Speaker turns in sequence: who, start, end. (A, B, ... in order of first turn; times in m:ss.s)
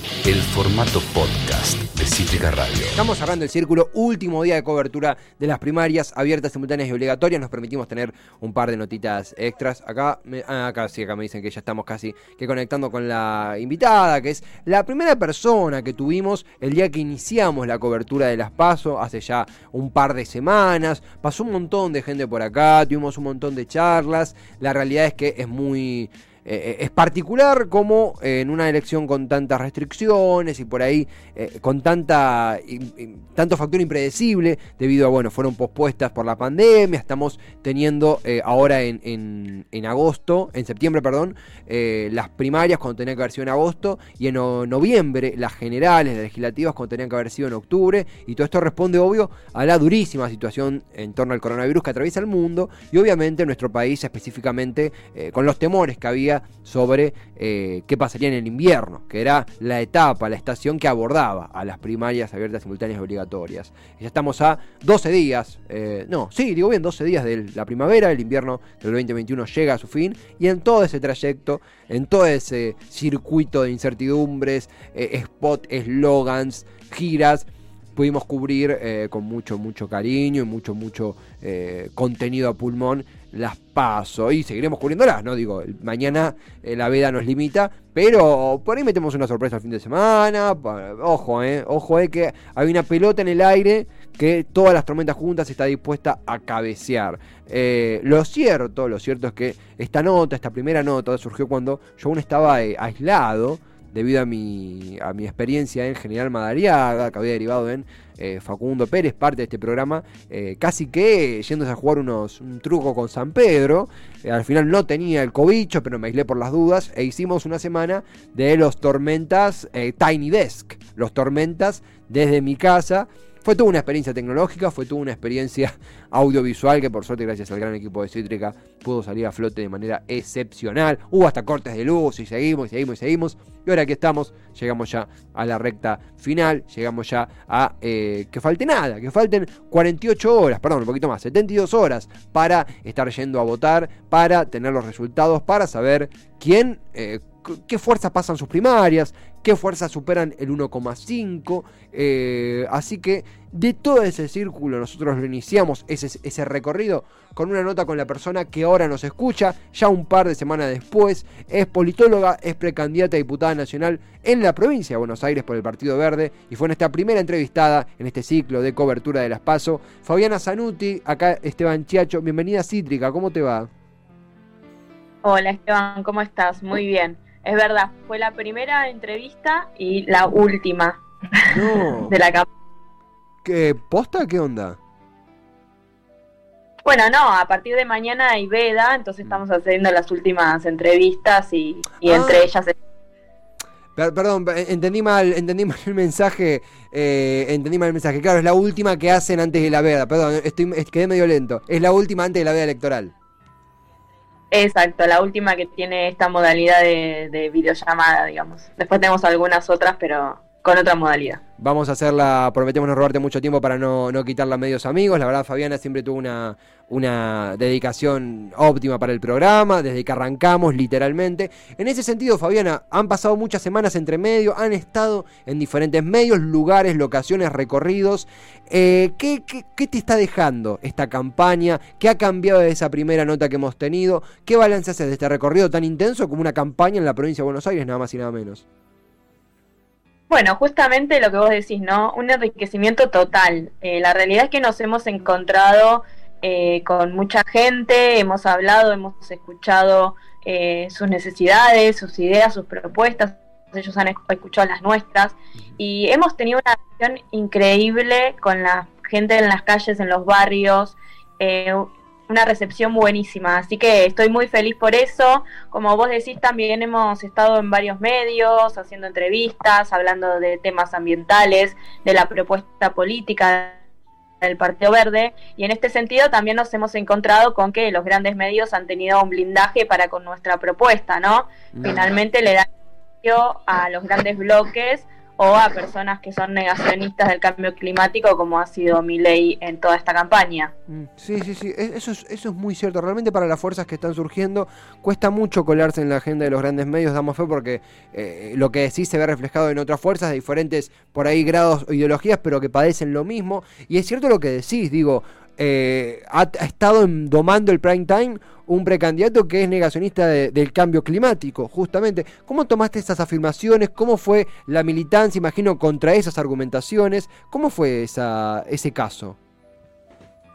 0:00.2-0:03.0 A
0:02.9-2:53.7 B
2:55.2-3:02.5 C
3:01.5-3:02.1 B
3:03.4-3:04.8 B
3:06.8-3:12.8 C
3:12.0-3:12.5 B
3:14.0-3:23.1 B
3:24.5-3:31.4 C
3:31.6-3:58.6 B
4:00.3-4:33.8 C
4:34.4-4:42.7 C
4:41.8-4:42.1 B
4:43.2-4:50.7 C
4:50.9-5:19.4 B